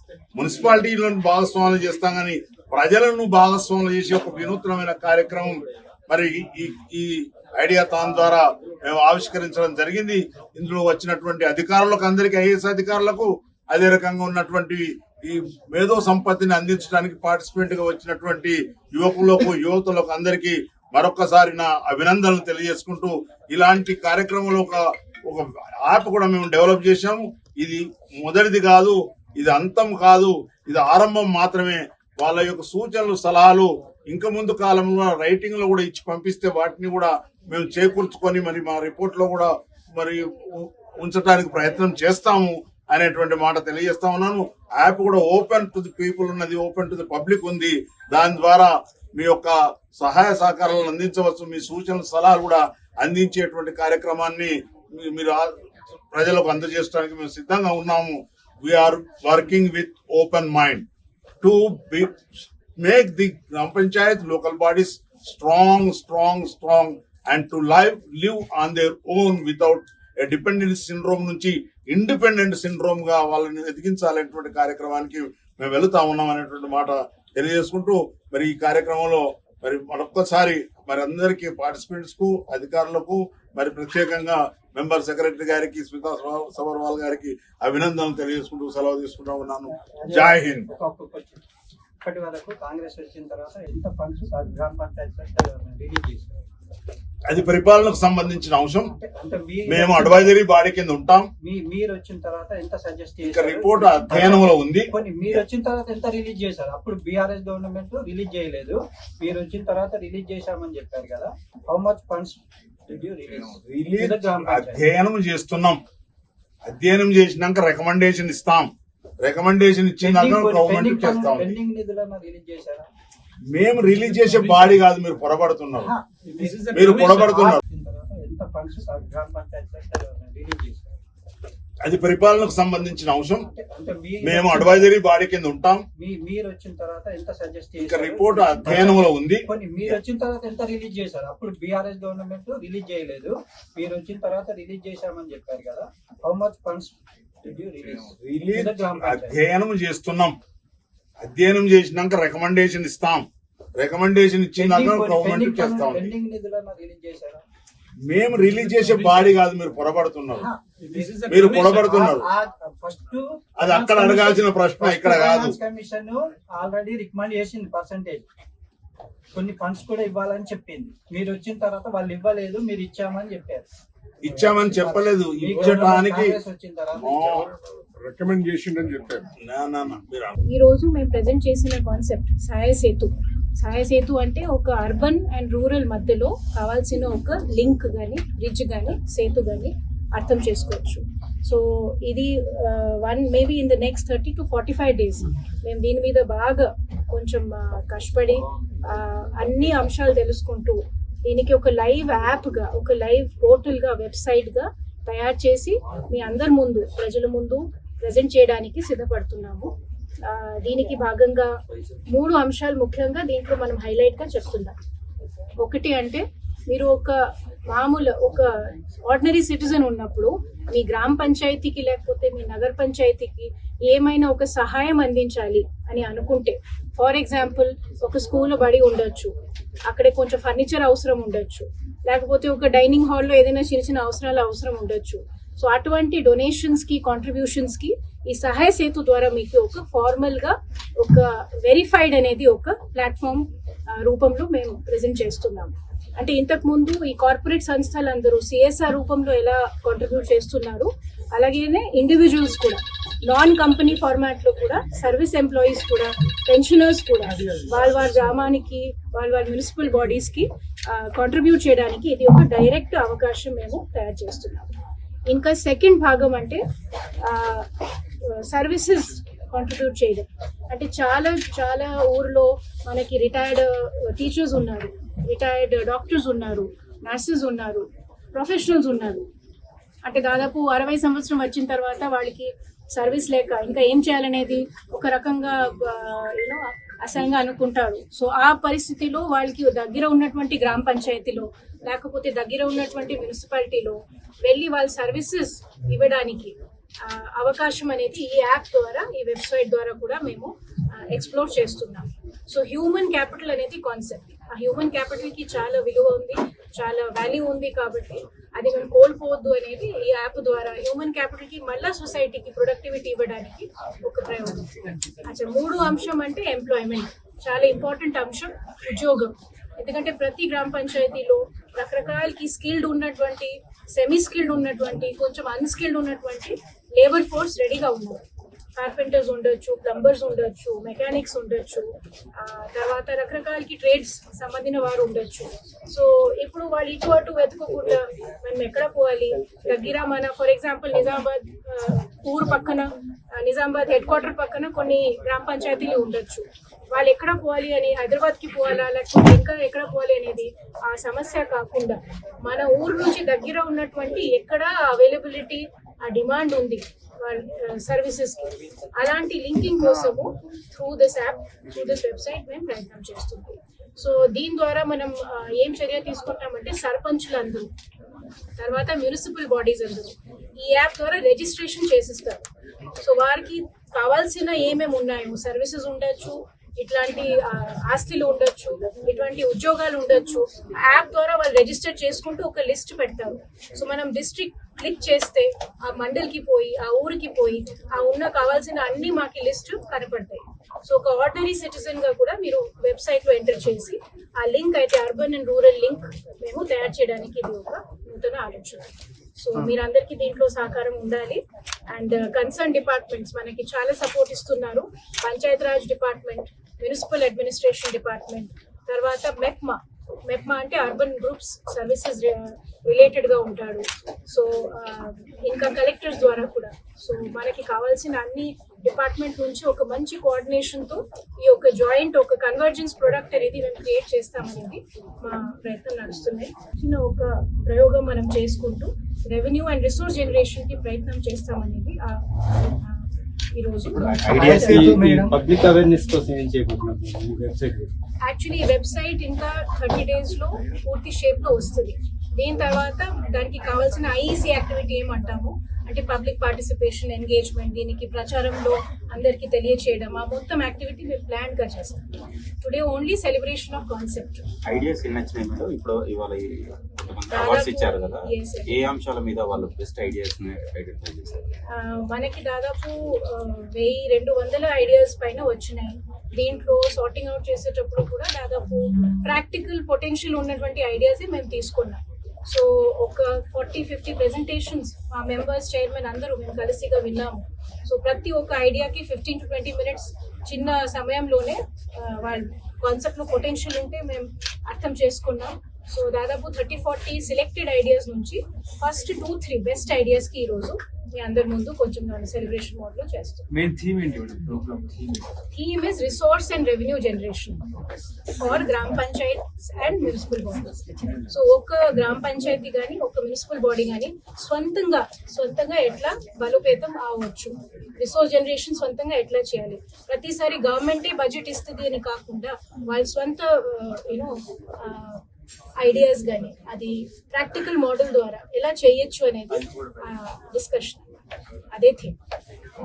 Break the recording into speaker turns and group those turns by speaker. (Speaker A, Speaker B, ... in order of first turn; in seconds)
Speaker A: 0.3-55.5, 56.1-60.8, 61.4-90.7, 97.3-98.9, 99.7-101.3, 103.2-104.9, 113.6-115.8, 116.7-118.7, 119.2-121.6, 123.5-125.9, 126.7-127.6, 131.8-133.5, 134.2-135.8, 137.8-139.5, 148.2-150.3, 151.2-153.2, 153.8-156.1, 158.1-160.5, 161.3-162.2, 163.6-165.5, 174.2-176.4, 177.0-177.5, 179.4-180.3
Speaker B: 89.8-91.4, 92.0-96.5, 99.0-100.3, 101.4-114.8, 120.0-122.9, 125.8-131.0, 133.5-134.9, 136.0-149.4, 154.6-157.4, 160.4-168.2, 169.3-173.7, 174.2-177.2, 434.3-435.4
Speaker C: 160.9-161.5, 434.2-437.9, 493.5-495.1
Speaker D: 177.3-179.3
Speaker E: 180.5-211.5, 212.1-214.8, 215.6-229.3, 229.8-264.7, 265.3-266.6, 267.2-267.7, 268.2-279.2, 280.0-328.2, 328.8-367.7, 368.6-372.4, 373.0-432.2, 432.7-434.8, 438.2-452.1, 452.6-454.4, 457.3-458.8, 461.7-493.4, 495.5-497.6, 498.3-515.2, 515.8-521.0, 521.7-522.1
Speaker F: 433.9-434.5, 454.6-461.5